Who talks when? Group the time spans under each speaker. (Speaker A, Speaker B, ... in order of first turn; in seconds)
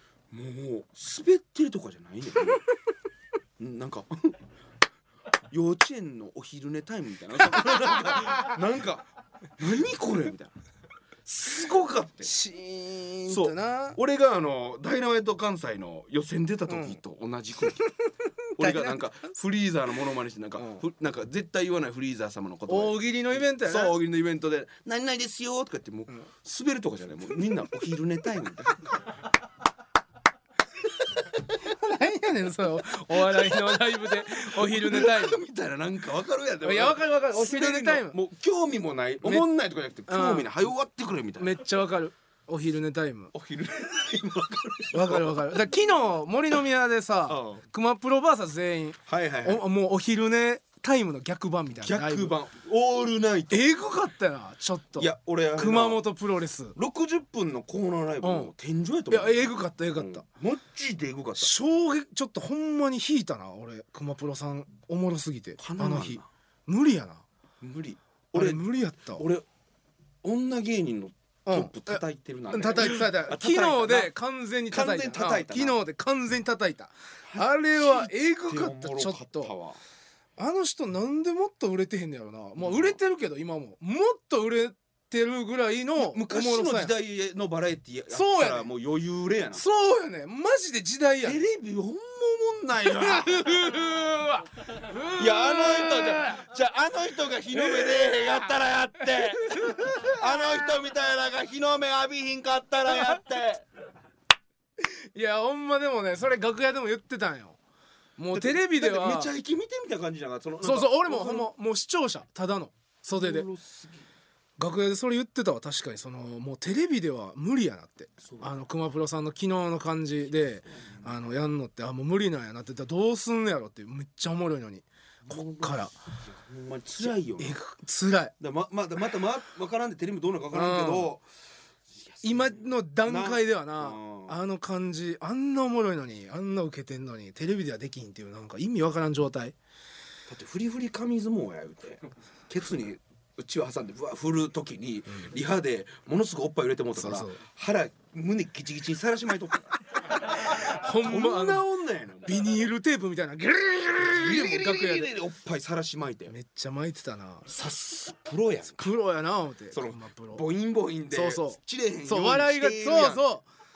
Speaker A: 0.3-2.6, 3.6-4.4, 5.5-9.1, 9.6-10.5, 11.3-12.3, 13.3-17.8, 18.6-29.2, 33.2-41.6, 43.3-45.6, 47.3-47.6, 49.1-49.6, 51.8-53.7, 55.0-56.1, 56.8-61.5, 65.6-66.3, 67.6-69.5, 70.2-74.1, 74.7-75.8, 77.3-79.8, 82.6-83.0, 86.0-89.6, 91.2-93.9, 95.2-103.7, 108.3-111.5, 113.1-114.1, 118.2-118.5, 125.3-127.6, 128.4-131.2, 131.9-134.4, 140.3-152.4, 154.0-156.3, 157.5-158.9, 159.7-163.3
Speaker B: 7.8-8.5, 12.2-14.0, 16.7-17.0, 18.5-19.0, 22.7-24.0, 31.5-35.4, 36.6-38.2, 39.2-39.5, 40.1-40.5, 41.4-43.3, 44.9-52.4, 53.5-56.8, 58.2-58.5, 59.1-60.2, 61.4-67.2, 68.3-69.3, 71.5-72.0, 72.5-79.5, 80.4-86.9, 88.1-88.7, 89.5-91.4, 92.9-96.5, 97.5-98.5, 99.0-100.5, 104.8-107.6, 108.2-109.3, 110.6-113.5, 114.6-125.9, 127.0-128.3, 130.5-131.1, 132.2-139.6, 147.0-147.4, 150.3-151.7, 152.2-155.1, 156.3-157.5, 158.8-160.4, 161.1-163.4